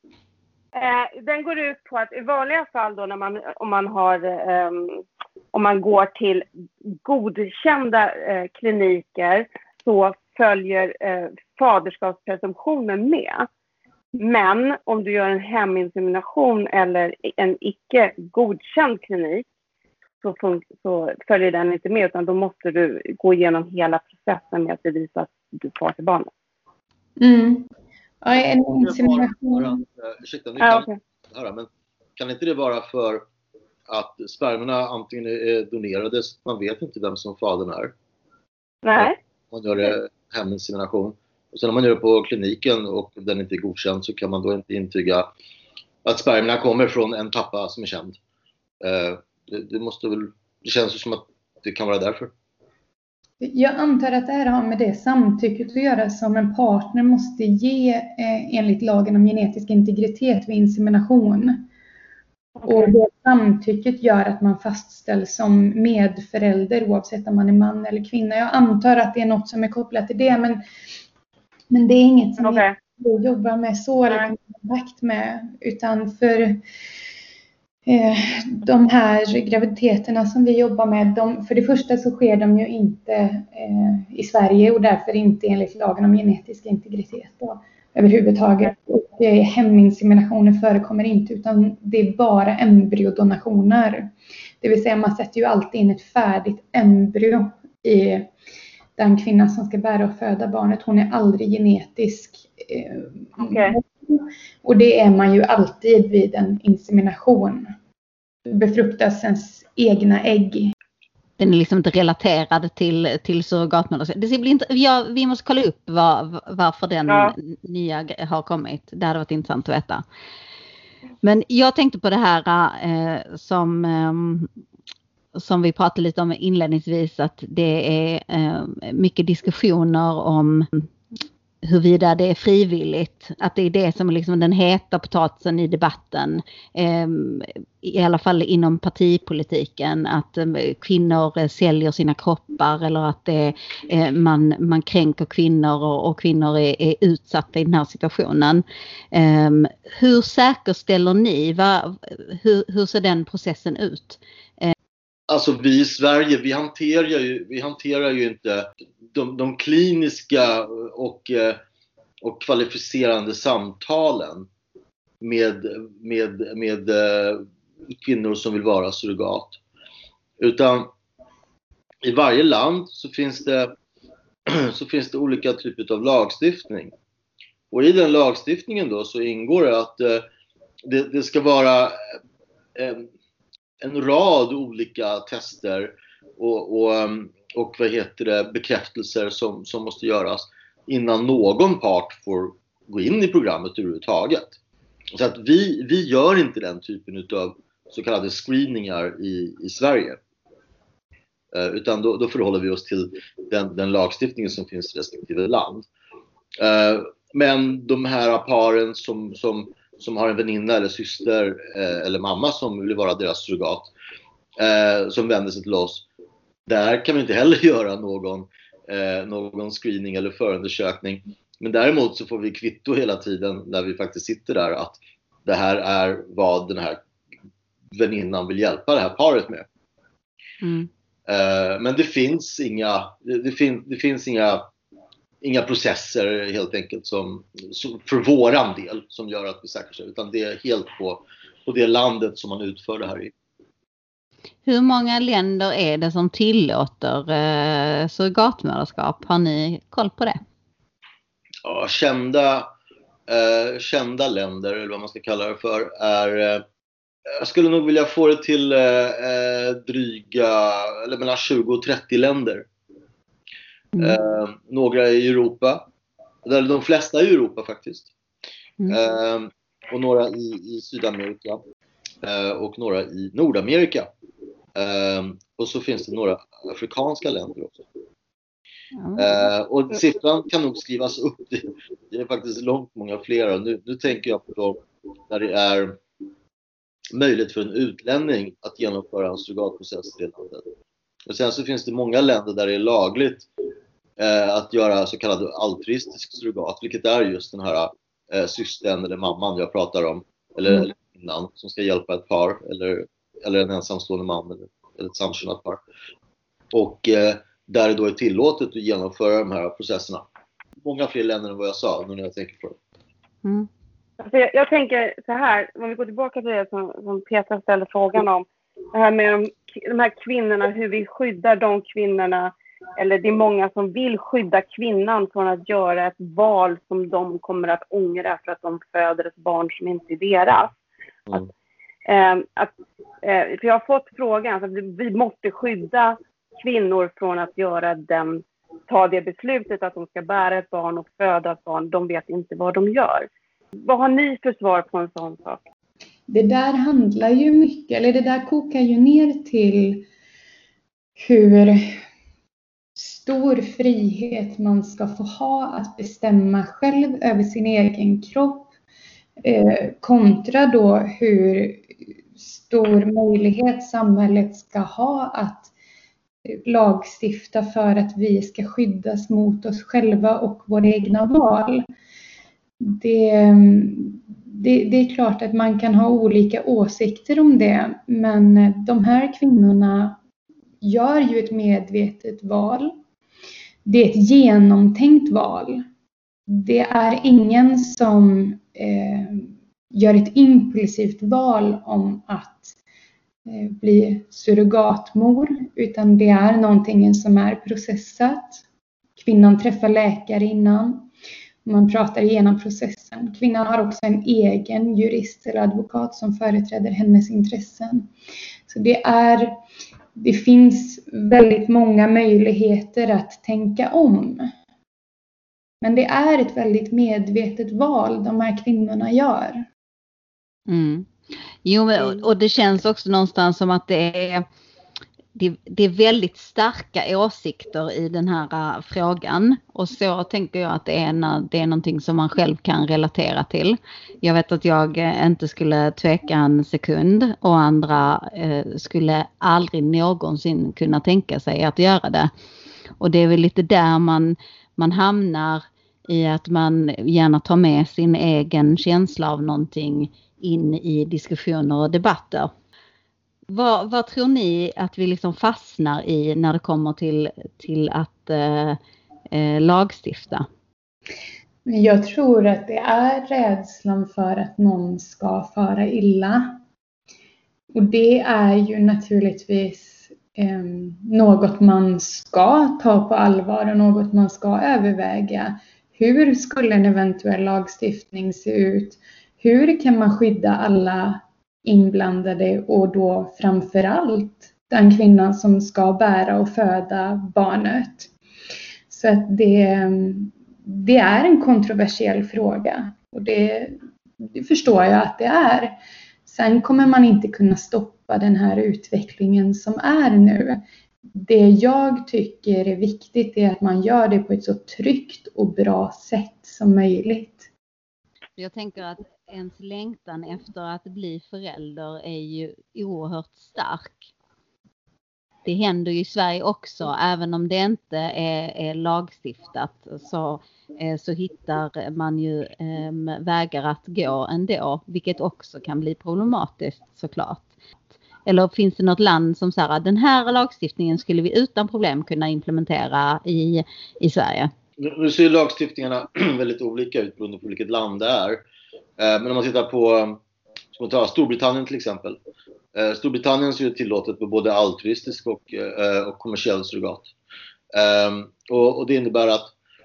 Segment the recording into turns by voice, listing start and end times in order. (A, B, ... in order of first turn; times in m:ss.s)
0:00.7-0:05.0 A
0:05.5-0:06.4 A
0:07.0-0:13.5 A
0:14.2-0:19.4 A
0:20.2-0:26.3 A
0:27.2-0:27.7 B
0:28.2-0:29.8 B
0:28.3-0:33.2 C
0:30.6-0:30.9 A
0:33.9-0:37.9 C
0:38.8-0:39.2 A
0:39.0-0:45.3 C
0:46.0-0:48.2 C
0:48.8-0:52.3 C
0:53.4-1:01.6 B
1:02.6-1:02.9 A
1:02.6-1:10.6 B
1:11.7-1:16.6 B
1:12.4-1:12.8 A
1:17.9-1:38.3 B
1:39.0-1:47.7 B
1:43.4-1:43.8 A
1:48.5-1:50.7 B
1:51.4-2:00.0 D
1:57.1-1:57.3 A
2:01.2-2:04.5 D
2:05.4-2:10.9 D
2:11.6-2:34.7 D
2:35.3-2:41.6 C
2:42.2-2:44.5 C
2:45.2-2:49.6 C
2:50.4-2:50.9 C
2:52.0-2:53.7 C
2:54.5-2:56.9 C
2:57.7-3:00.2 C
3:00.8-3:02.0 C
3:02.8-3:03.1 C
3:03.8-3:14.6 C
3:15.1-3:20.2 C
3:21.5-3:25.9 C
3:26.6-3:33.9 C
3:34.6-3:36.0 C
3:36.7-3:47.0 C
3:47.9-3:49.7 C
3:50.6-3:50.9 D
3:51.3-3:54.7 C
3:55.4-4:03.3 C
4:04.7-4:10.4 D
4:11.6-4:12.7 C
4:13.3-4:16.6 C
4:17.4-4:22.7 C
4:24.0-4:25.9 C
4:26.4-4:28.1 C
4:28.9-4:31.6 C
4:32.2-4:34.1 C
4:34.8-4:37.8 C
4:39.0-4:39.3 D
4:39.2-4:46.0 C
4:47.1-4:50.7 C
4:51.3-4:53.5 C
4:54.2-5:05.8 C
5:06.7-5:10.2 C
5:10.8-5:12.8 C
5:14.2-5:30.8 A
5:32.1-5:43.3 A
5:43.8-5:45.6 A
5:46.3-5:50.1 B
5:51.2-5:52.0 B
5:53.0-5:58.7 B
5:59.4-6:01.9 B
6:02.4-6:05.7 B
6:06.5-6:11.8 B
6:12.8-6:20.2 B
6:20.8-6:23.0 B
6:23.8-6:25.8 B
6:26.5-6:32.8 B
6:33.5-6:38.6 B
6:39.2-6:41.1 B
6:41.6-6:48.1 B
6:48.7-6:49.6 B
6:50.2-6:54.5 B
6:55.8-6:59.6 B
7:00.7-7:01.1 D
7:01.6-7:04.5 D
7:05.4-7:22.3 D
7:23.0-7:32.5 D
7:33.5-7:38.8 D
7:39.3-7:40.5 D
7:41.7-7:46.6 B
7:47.7-8:08.1 B
8:08.9-8:20.6 B
8:21.2-8:27.5 B
8:28.4-8:34.1 D
8:35.4-8:47.5 D
8:48.2-8:54.5 D
8:54.8-8:58.4 C
8:59.0-9:00.2 C
9:00.7-9:02.2 C
9:02.7-9:07.1 C
9:07.7-9:09.5 C